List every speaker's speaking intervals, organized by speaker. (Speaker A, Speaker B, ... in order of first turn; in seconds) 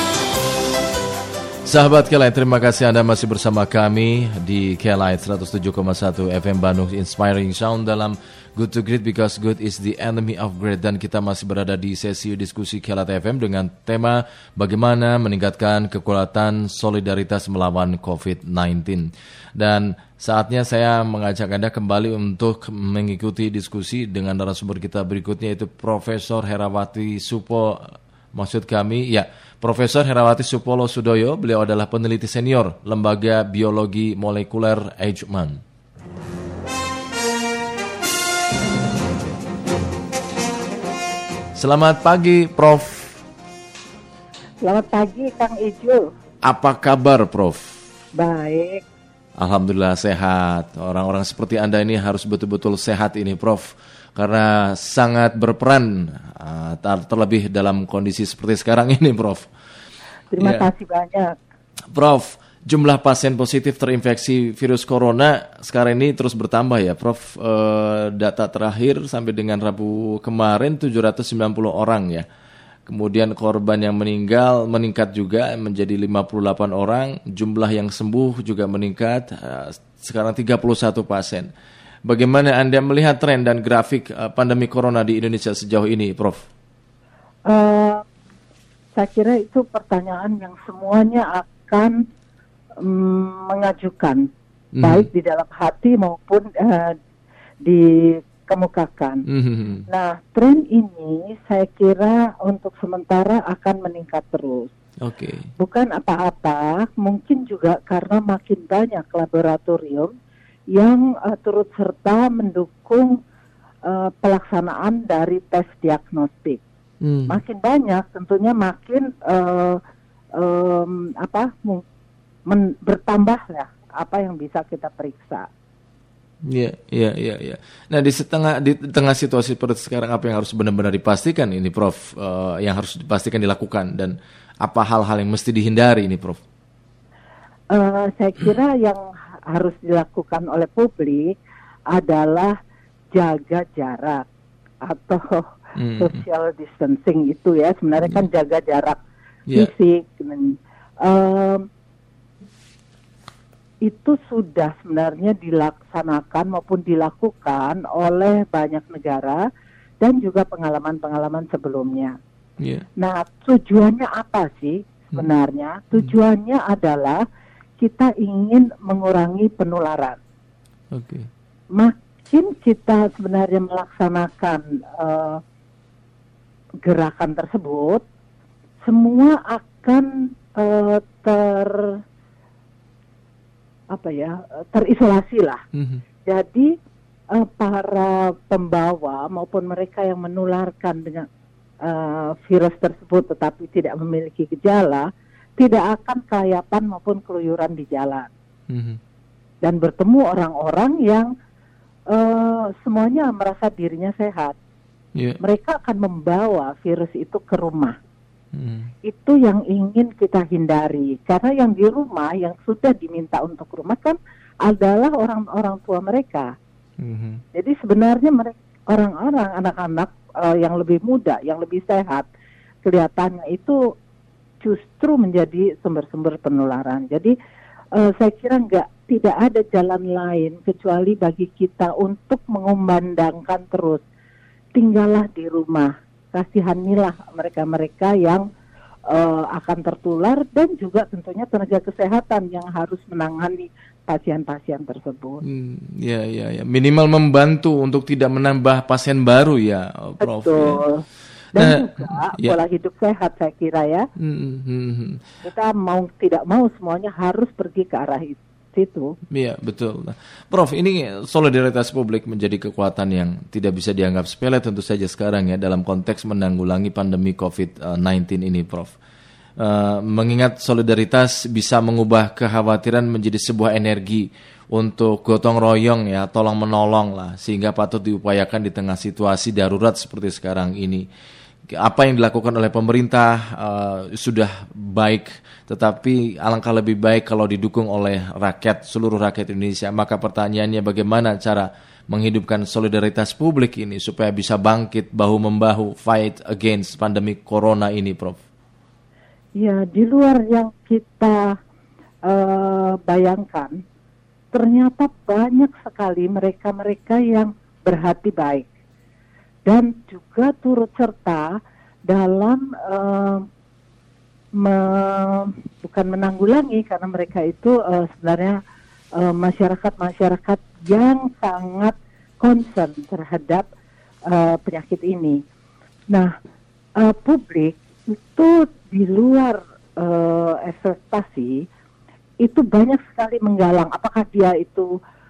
Speaker A: 1.6-35.6, 41.5-43.2, 46.4-47.7, 49.4-59.5, 60.4-60.7, 61.9-72.2, 72.9-81.5, 82.1-86.5, 94.7-95.1, 99.3-99.8, 105.0-105.5, 117.0-117.4, 126.5-136.4, 145.8-146.2, 170.9-171.3, 185.7-186.0, 198.7-199.0, 208.5-208.9, 217.0-217.4, 245.4-250.8, 251.5-252.6, 254.2-255.2, 259.3-268.9, 269.6-281.0, 281.7-298.4
Speaker B: 44.6-46.0, 48.1-48.8, 60.3-61.3, 87.5-88.0, 88.9-91.9, 92.8-94.2, 94.8-96.9, 97.6-99.2, 99.9-104.7, 105.6-110.1, 110.7-113.2, 113.8-116.6, 117.3-119.8, 120.4-121.8, 122.5-125.5, 137.7-141.4, 141.9-142.5, 143.1-144.2, 144.8-149.0, 149.5-151.6, 153.8-159.4, 160.0-162.1, 163.0-167.2, 167.8-170.2, 171.8-175.4, 176.8-178.0, 178.8-182.0, 183.9-185.6, 186.2-186.7, 187.3-191.3, 191.8-198.3, 199.6-201.3, 202.1-204.6, 205.4-207.9, 209.0-216.5, 217.5-222.3, 222.8-223.8, 224.6-227.3, 227.9-234.0, 234.7-238.4, 239.1-245.4, 250.2-251.0, 251.5-254.0, 255.4-259.1, 299.6-301.5, 302.3-303.7, 304.5-308.7, 309.6-311.5, 312.1-313.4, 314.6-318.6, 319.2-323.6, 324.3-325.4, 327.0-331.5, 332.4-334.9